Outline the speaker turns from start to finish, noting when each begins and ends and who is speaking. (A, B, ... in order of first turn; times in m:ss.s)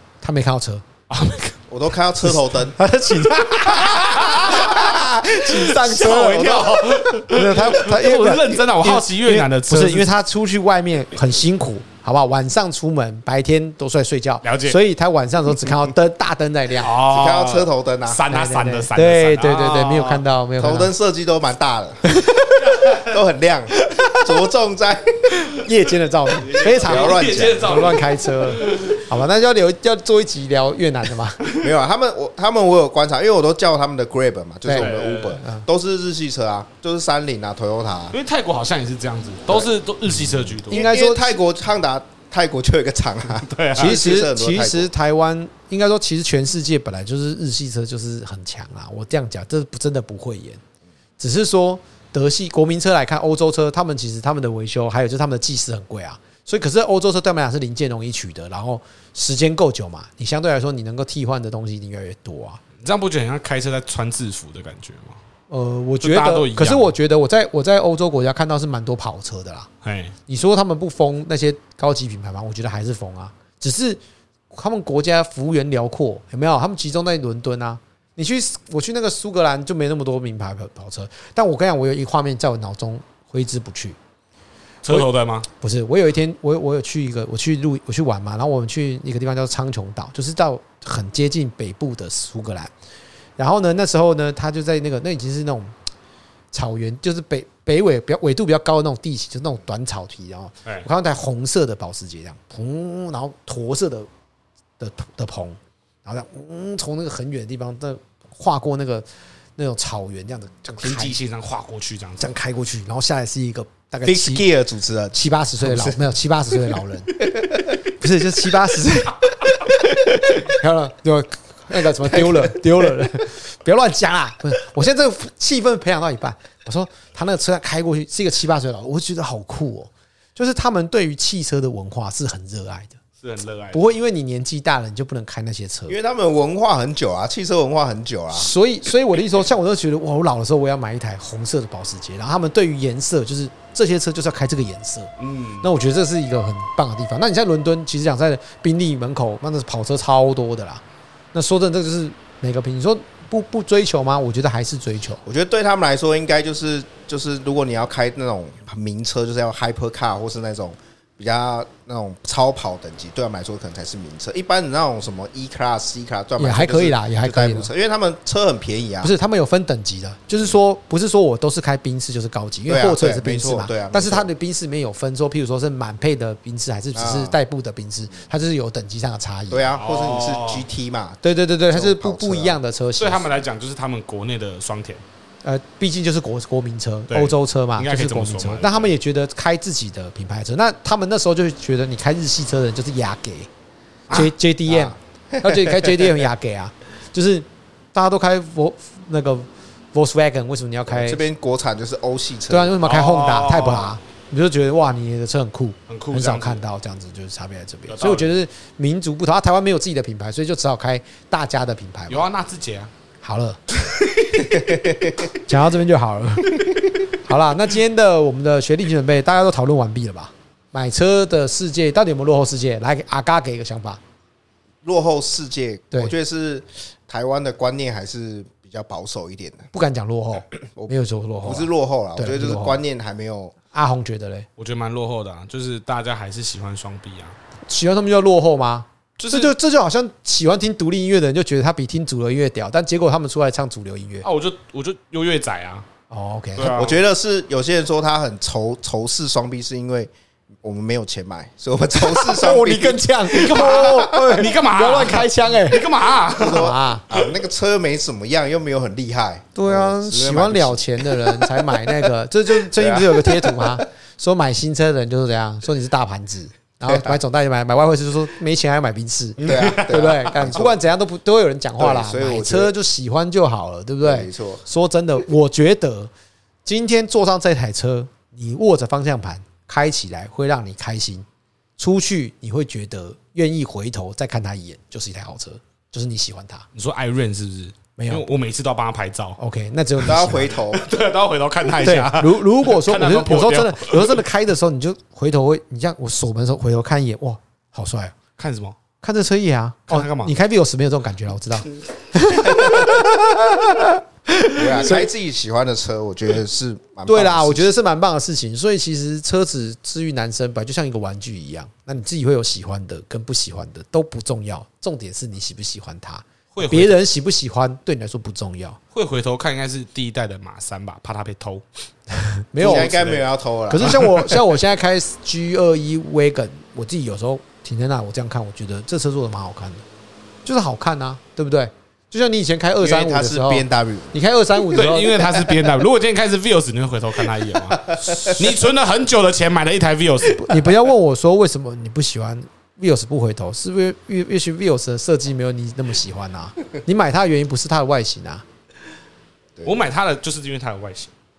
0:00.2-0:00.9 A
0:01.1-0:01.6 B
0:01.7-0:02.8 C
0:02.7-0:16.9 A
0:03.6-0:10.1 B
0:14.4-0:14.8 B
0:16.8-0:20.2 B
0:17.0-0:18.2 C
0:18.3-0:20.9 A
0:20.6-0:25.3 C
0:22.1-0:22.5 A
0:22.6-0:23.0 B
0:25.5-0:31.5 A
0:26.4-0:29.0 B
0:26.5-0:27.9 C
0:31.6-0:38.2 C
0:34.6-0:35.6 A
0:34.7-0:35.4 B
0:38.1-0:40.9 B
0:40.7-0:44.9 C
0:40.7-0:41.4 A
0:43.4-0:44.0 B
0:43.8-0:50.6 A
0:51.2-1:02.6 A
1:02.8-1:05.2 B
1:05.5-1:09.7 A
1:06.0-1:06.9 B
1:09.8-1:10.1 B
1:10.3-1:14.0 A
1:14.5-1:24.0 A
1:24.8-1:25.5 B
1:25.6-1:32.7 A
1:33.4-1:35.7 A
1:36.5-1:44.1 A
1:44.8-1:49.0 A
1:49.6-1:51.2 A
1:50.8-1:52.3 B
1:52.2-1:54.5 A
1:54.0-1:56.0 C
1:55.1-1:57.2 A
1:57.3-1:57.6 C
1:58.0-1:59.7 A
2:00.2-2:13.0 A
2:13.2-2:13.9 B
2:13.7-2:16.0 A
2:15.9-2:18.5 C
2:18.3-2:25.1 A
2:25.2-2:25.7 B
2:25.6-2:30.8 A
2:31.3-2:35.2 A
2:35.2-2:49.1 C
2:46.4-2:47.7 A
2:49.0-2:59.7 A
2:52.7-2:54.3 C
2:56.9-2:57.4 C
2:59.5-3:02.6 C
2:59.8-3:00.6 B
3:01.2-3:03.3 A
3:03.0-3:05.0 B
3:05.4-3:13.5 A
3:07.1-3:08.9 B
3:14.1-3:21.2 A
3:14.7-3:16.2 C
3:20.9-3:22.8 C
3:22.5-3:32.3 A
3:22.8-3:24.0 B
3:25.9-3:26.6 B
3:27.9-3:28.4 B
3:32.1-3:32.9 B
3:33.2-3:33.6 A
3:34.4-3:35.3 C
3:35.4-3:44.0 A
3:44.8-3:49.7 C
3:49.7-3:52.8 A
3:50.7-3:53.6 C
3:53.7-3:54.5 A
3:54.6-3:57.4 B
3:57.7-4:04.3 A
3:59.2-3:59.5 B
4:04.2-4:05.8 B
4:06.1-4:06.8 A
4:06.6-4:07.0 B
4:06.7-4:10.1 C
4:10.6-4:14.0 C
4:11.9-4:15.8 A
4:13.3-4:17.2 B
4:16.3-4:21.9 C
4:16.4-4:17.0 A
4:19.5-4:36.1 A
4:22.6-4:23.8 C
4:26.8-4:27.2 C
4:29.4-4:30.3 B
4:29.4-4:30.8 C
4:31.8-4:32.7 C
4:34.0-4:34.6 C
4:36.6-4:41.2 A
4:41.8-4:46.6 A
4:46.7-4:49.4 B
4:48.0-4:48.3 A
4:49.4-4:50.5 A
4:50.0-4:50.9 C
4:50.7-4:54.2 B
4:51.8-4:58.2 A
4:58.4-4:58.8 B
4:59.0-5:05.0 A
4:59.9-5:00.3 B
5:04.5-5:07.7 C
5:07.0-5:18.8 A
5:16.5-5:17.0 B
5:18.9-5:21.6 B
5:22.2-5:23.0 A
5:22.6-5:24.3 C
5:22.6-5:23.2 B
5:23.7-5:29.8 A
5:30.4-5:35.5 A
5:32.8-5:34.1 C
5:34.7-5:40.5 B
5:37.9-5:38.3 C
5:40.3-5:48.4 A
5:49.6-5:51.1 B